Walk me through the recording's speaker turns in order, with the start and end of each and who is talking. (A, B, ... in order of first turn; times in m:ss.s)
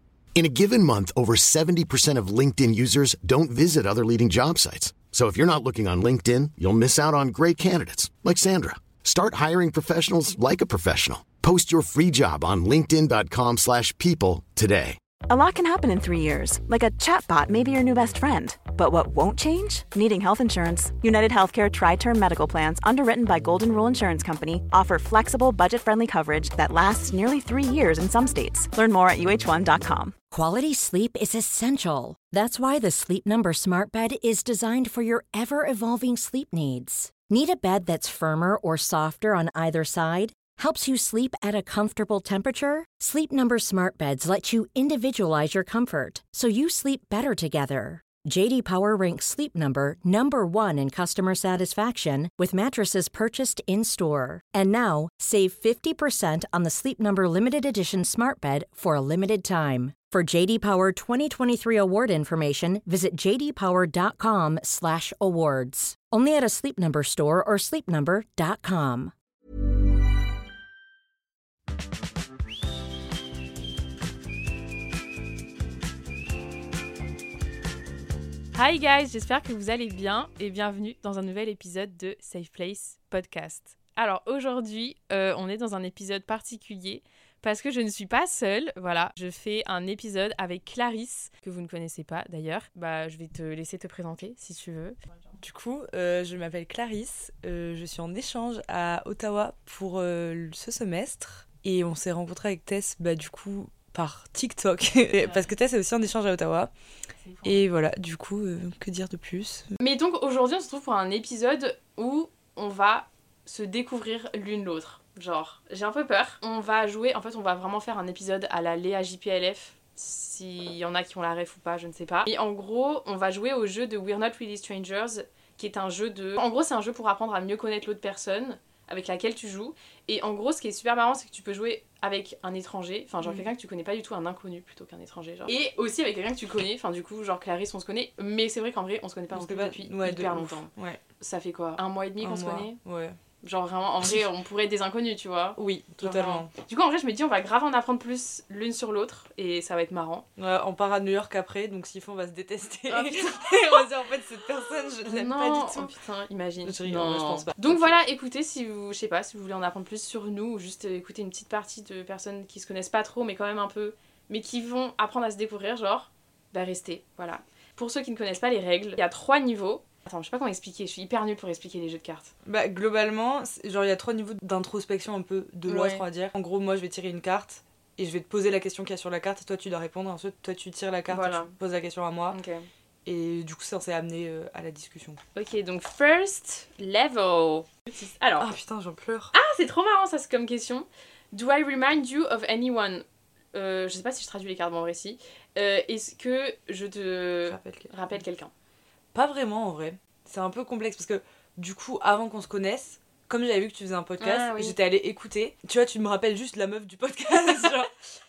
0:00.4-0:15.0 A
0:15.3-0:30.1 B
0:30.3-1:09.1 C
1:18.6-1:35.0 D
1:35.4-1:46.7 E
1:45.2-1:45.5 D
1:47.2-1:47.7 D
1:47.4-1:49.7 E
1:49.8-2:22.8 D
2:13.2-2:13.5 E
2:19.3-2:21.0 E
2:22.2-2:23.2 E
2:23.4-2:30.3 D
2:25.6-2:26.5 E
2:30.4-2:36.0 E
2:32.9-2:33.8 D
2:35.1-2:52.3 D
2:36.6-2:38.0 E
2:52.4-3:02.4 E
2:55.7-2:56.1 D
3:01.1-3:01.5 D
3:02.3-3:02.7 D
3:03.0-3:05.2 E
3:05.4-3:08.5 D
3:08.4-3:09.3 E
3:09.3-3:18.5 D
3:17.5-3:17.9 E
3:19.1-3:27.9 E
3:24.2-3:24.8 D